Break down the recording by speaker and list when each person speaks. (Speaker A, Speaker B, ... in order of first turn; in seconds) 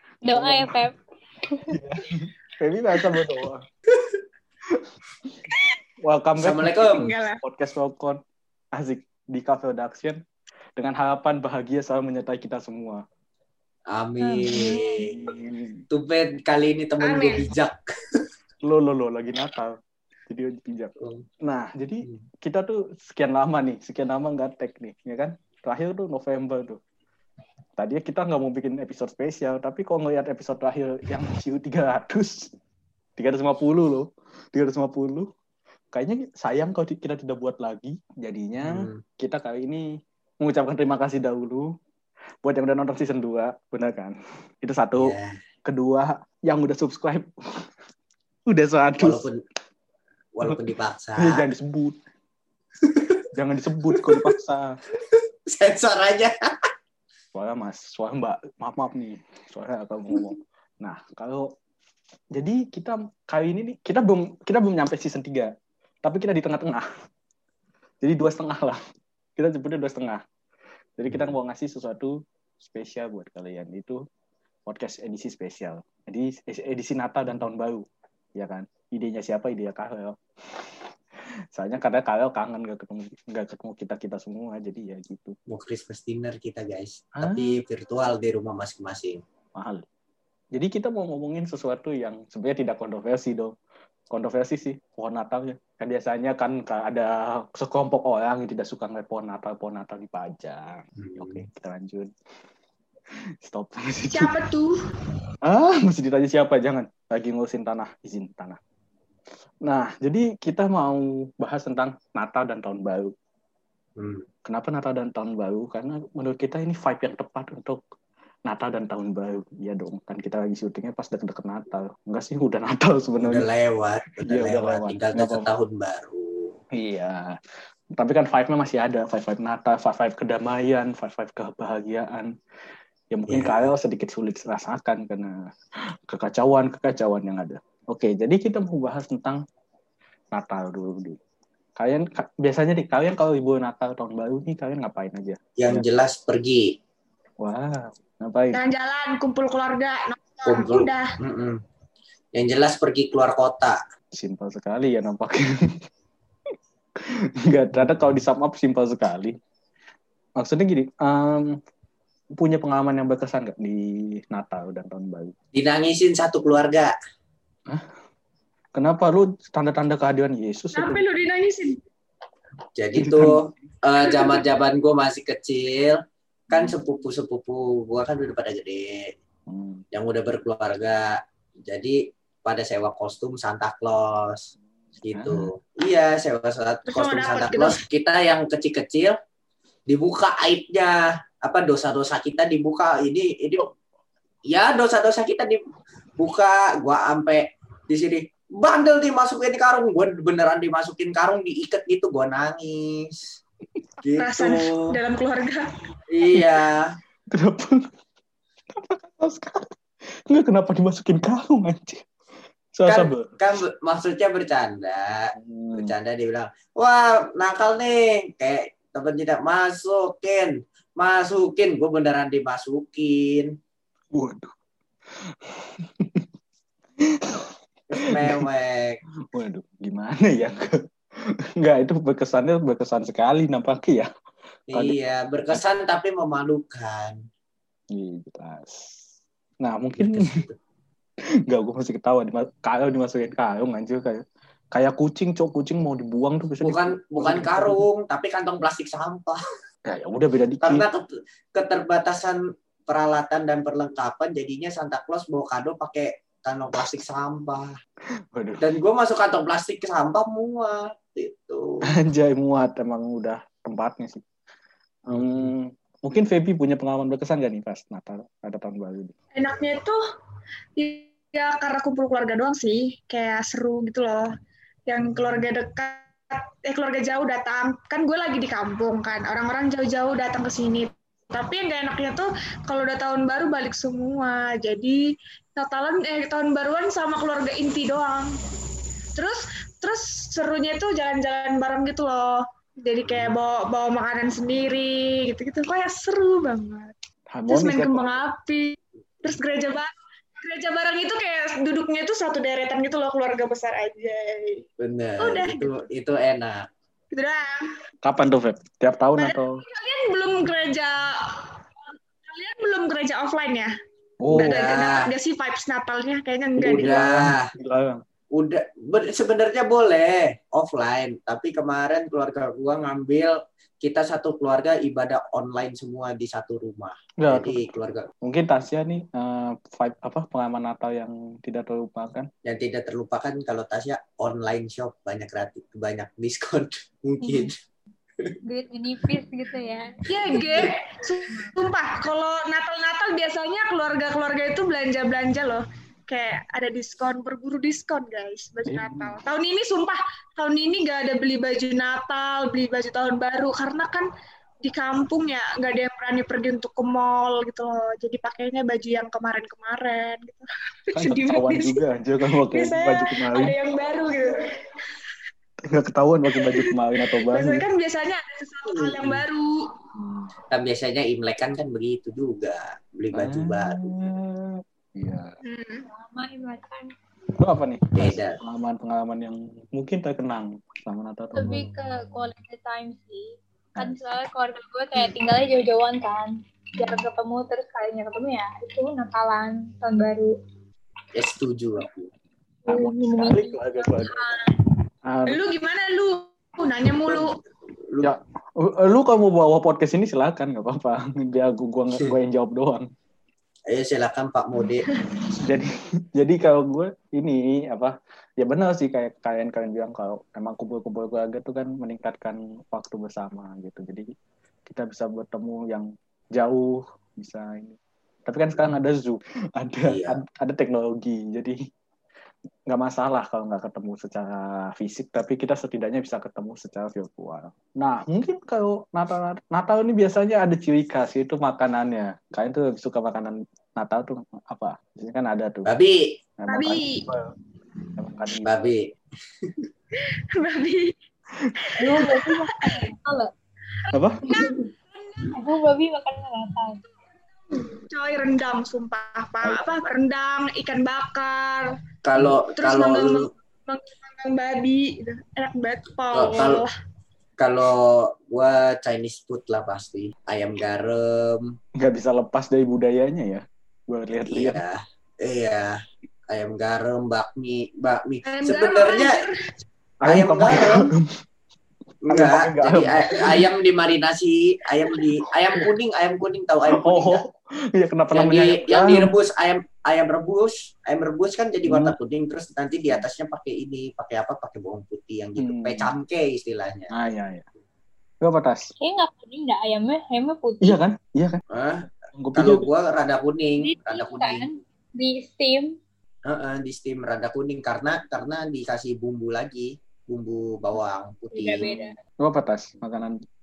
Speaker A: 0.2-0.9, 14.2-14.8, 337.2-337.5, 338.4-341.5, 375.9-376.9, 381.3-390.3, 392.6-394.5, 441.8-443.3, 444.2-444.5, 445.3-446.8, 488.8-490.8, 493.6-495.8, 501.3-501.9
Speaker B: 0.3-0.7, 1.7-3.6, 6.0-8.2, 8.7-10.2, 10.8-13.0, 14.9-15.8, 18.6-19.8, 20.3-20.9, 21.4-26.8, 27.8-32.5, 33.2-35.3, 35.9-39.9, 40.4-41.7, 42.4-47.6, 48.5-49.2, 51.2-52.0, 53.3-54.6, 57.3-61.5, 62.3-65.5, 66.0-66.8, 68.0-68.8, 69.4-70.2, 71.0-74.0, 74.7-77.8, 78.3-80.2, 81.5-85.3, 87.2-87.6, 89.5-89.8, 90.5-93.5, 94.1-102.1, 103.4-104.3, 105.4-108.6, 109.6-113.1, 114.5-117.8, 118.5-123.5, 124.2-125.5, 126.7-127.4, 128.0-132.3, 133.1-135.3, 136.1-139.4, 140.3-141.2, 141.8-145.8, 147.4-148.6, 154.2-155.7, 157.4-159.3, 160.4-161.5, 162.4-165.3, 168.7-171.0, 172.9-173.4, 179.5-179.8, 185.1-185.5, 207.3-207.8, 208.7-209.7, 210.3-212.0, 212.7-213.3, 215.3-215.9, 224.1-224.5, 225.2-226.2, 227.0-227.5, 229.3-230.7, 231.6-234.1, 234.7-235.6, 237.9-239.0, 239.6-240.2, 241.5-244.2, 244.7-247.8, 249.9-250.8, 258.3-258.6, 261.9-264.2, 265.1-269.1, 297.3-298.1, 308.0-309.6, 314.2-314.7, 316.7-318.0, 327.2-327.6, 328.2-332.3, 348.6-349.2, 360.9-363.5, 365.6-367.6, 369.9-370.3, 373.1-375.4, 377.4-381.7, 383.8-384.0, 392.7-394.2, 395.1-395.4, 398.0-402.8, 405.4-414.1, 414.6-421.6, 422.7-435.7, 436.4-437.3, 438.0-438.5, 443.9-444.2, 449.4-449.8, 461.8-464.6, 470.0-471.1, 472.1-473.4, 476.7-479.1, 481.6-481.9, 485.4-485.9, 486.9-487.4, 488.2-488.7, 490.6-491.4, 492.1-492.7, 502.2-503.1
Speaker C: 6.4-7.0, 13.9-15.2, 15.9-17.8, 21.0-21.2, 38.6-39.0, 45.0-45.4, 49.0-49.4, 50.3-51.5, 52.8-53.2, 53.9-54.3, 55.5-56.5, 85.5-89.2, 101.0-101.4, 114.0-114.2, 123.2-126.5, 133.3-133.7, 145.6-146.7, 150.4-151.6, 152.3-153.8, 165.5-166.9, 172.8-176.0, 176.5-179.1, 179.9-181.1, 181.7-184.5, 185.0-189.1, 189.9-193.7, 194.5-195.6, 196.2-203.2, 204.0-204.9, 206.1-206.8, 212.8-223.5, 227.9-229.0, 234.7-237.2, 240.0-240.6, 246.6-249.4, 250.6-257.7, 258.6-261.8, 265.1-265.5, 304.8-306.6, 314.3-315.1, 316.6-317.4, 318.3-328.1, 332.4-337.5, 368.7-369.2, 370.5-373.8, 377.9-378.4, 391.1-392.1, 397.1-397.4, 403.7-404.9, 419.8-420.2, 435.6-436.1, 438.4-438.9, 452.0-453.2, 456.1-456.6, 457.4-461.5, 464.2-465.8, 466.3-469.2, 470.0-470.9, 472.1-477.2, 478.1-486.9, 491.5-494.5, 496.2-501.9
Speaker D: 6.9-7.4, 17.0-17.4, 104.1-104.7, 148.5-151.1, 170.7-171.8, 186.9-187.8, 204.2-205.6, 269.3-270.0, 270.8-274.3, 274.9-285.0, 285.6-288.3, 289.1-296.9, 297.5-304.6, 305.2-305.8, 307.1-307.7, 309.1-311.4, 312.3-313.7, 314.3-316.9, 340.1-354.1, 354.6-361.8, 362.5-364.5, 366.4-366.7, 367.3-369.6, 375.4-375.9, 395.3-397.3, 436.5-437.1, 440.3-440.9, 443.9-445.3, 447.5-451.7, 452.5-456.7, 468.2-469.4